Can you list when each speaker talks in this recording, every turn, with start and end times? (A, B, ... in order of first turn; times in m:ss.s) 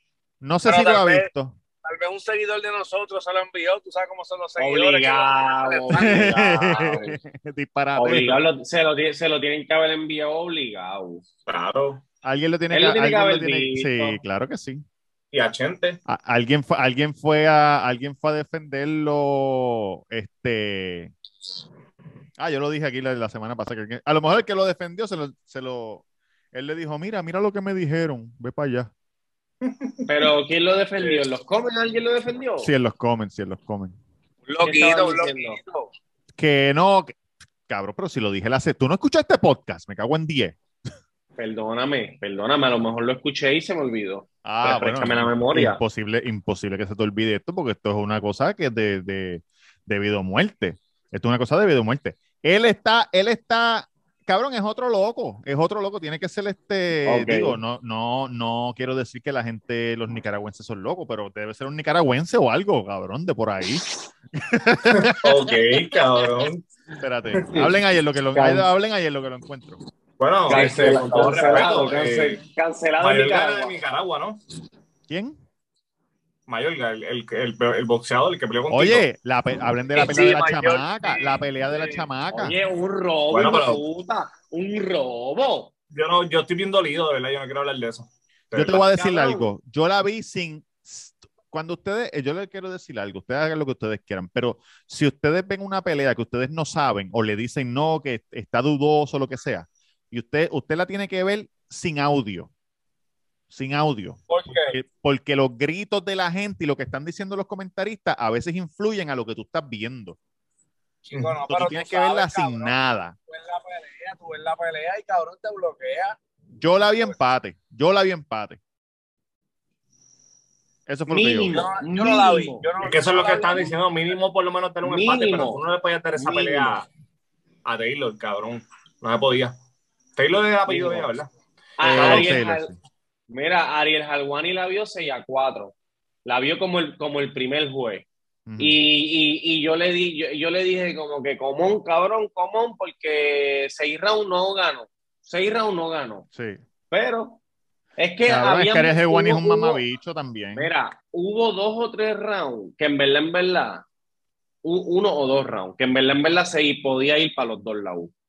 0:00.4-0:01.6 A
0:00.6-0:01.3 B
0:01.8-0:06.3 B
0:04.6-0:07.2 C
0:05.9-0:08.4 A
0:08.0-0:11.2 C
0:11.5-0:12.0 D
0:12.2-0:14.8 A
0:12.7-0:14.2 C
0:15.3-0:16.0 D
0:16.1-0:21.1 A
0:22.4-0:28.9 A
0:29.6-0:30.0 D
0:30.1-0:32.7 C
0:32.6-0:33.9 A
0:34.5-0:35.9 B
0:34.6-0:35.6 C
0:36.4-0:37.1 A
0:37.7-0:40.6 A
0:41.4-0:45.8 C
0:44.4-1:05.6 A
0:57.0-0:57.6 C
1:04.9-1:06.6 D
1:07.0-1:09.8 A
1:08.3-1:08.7 C
1:10.2-1:12.4 D
1:10.5-1:13.8 C
1:10.5-1:11.8 B
1:13.0-1:14.4 D
1:15.1-1:15.4 A
1:16.5-1:19.0 D
1:18.7-1:22.5 A
1:19.9-1:22.1 B
1:22.3-1:25.7 C
1:23.3-1:23.8 D
1:25.9-1:28.8 D
1:28.5-1:42.5 A
1:28.6-1:29.5 C
1:43.5-1:50.2 A
1:44.3-1:44.7 B
1:51.0-1:52.7 B
1:51.5-1:53.1 A
1:53.3-1:56.2 B
1:56.6-1:58.6 A
2:00.9-2:01.7 A
2:01.1-2:02.7 C
2:01.5-2:03.7 B
2:02.8-2:06.9 D
2:04.8-2:05.6 C
2:06.2-2:06.7 C
2:07.6-2:09.5 D
2:10.2-2:11.3 D
2:10.7-2:11.1 C
2:11.8-2:12.7 C
2:11.8-2:12.8 A
2:11.9-2:12.4 D
2:13.3-2:18.0 C
2:18.5-2:18.8 A
2:18.6-2:26.3 C
2:26.3-2:26.6 A
2:26.9-2:27.4 C
2:28.0-2:29.8 C
2:28.2-2:30.7 A
2:30.5-2:33.8 C
2:34.6-2:38.1 C